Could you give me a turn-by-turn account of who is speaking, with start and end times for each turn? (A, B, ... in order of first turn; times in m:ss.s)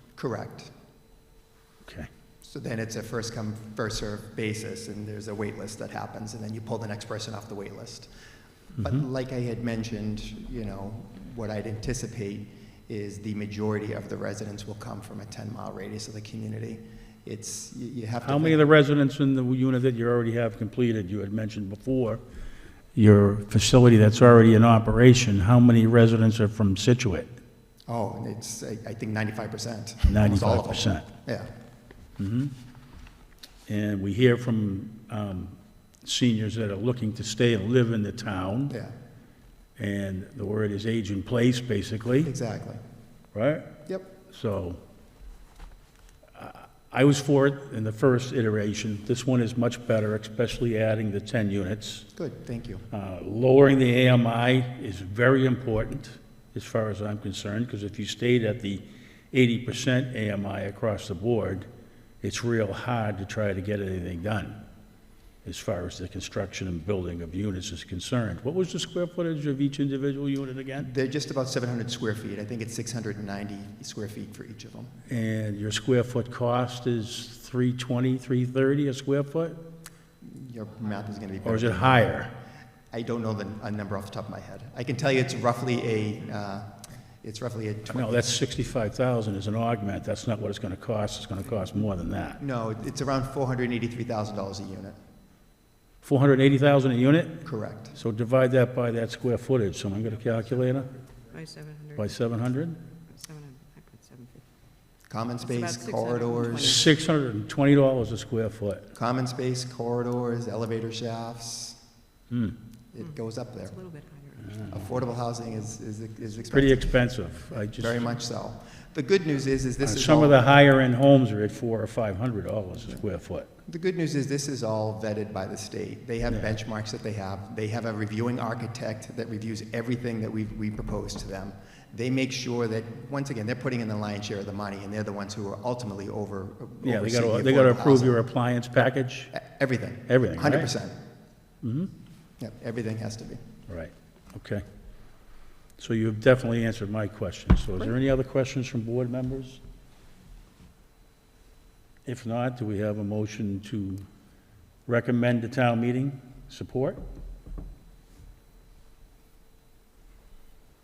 0:00.2-0:00.7 A
0:02.4-0:08.1 A
0:08.8-0:18.6 A
0:18.2-0:22.2 B
0:22.9-0:27.3 B
0:27.9-0:31.5 A
0:30.1-0:31.1 B
0:32.2-0:32.5 B
0:33.7-0:38.8 B
0:38.7-0:38.9 A
0:39.8-0:42.3 B
0:42.2-0:42.8 A
0:43.3-0:43.7 B
0:44.3-0:44.8 B
0:46.3-0:52.1 B
0:52.1-0:52.8 A
0:52.9-1:01.7 B
1:02.2-1:04.6 B
1:05.4-1:10.9 B
1:10.8-1:14.9 A
1:15.1-1:19.6 B
1:20.2-1:22.3 A
1:21.4-1:22.3 B
1:22.9-1:28.4 A
1:27.9-1:32.4 B
1:32.4-1:35.0 A
1:36.0-1:37.4 B
1:37.4-1:37.9 A
1:37.9-1:40.9 B
1:41.3-1:42.2 C
1:42.0-1:42.8 B
1:43.1-1:44.4 C
1:45.1-1:46.9 A
1:45.4-1:46.8 C
1:46.5-1:48.9 B
1:48.9-1:51.8 A
1:52.3-1:52.6 B
1:52.9-1:53.7 A
1:53.0-1:54.7 C
1:54.7-1:56.9 A
1:56.5-1:58.1 B
1:57.8-2:00.5 A
1:59.8-2:03.5 B
2:03.6-2:18.2 A
2:06.3-2:06.6 B
2:16.8-2:19.3 B
2:19.3-2:21.0 A
2:20.1-2:20.7 B
2:21.6-2:21.9 B
2:22.4-2:23.4 A
2:23.7-2:24.6 B
2:25.8-2:29.6 B
2:32.0-2:34.0 B
2:34.9-2:37.0 B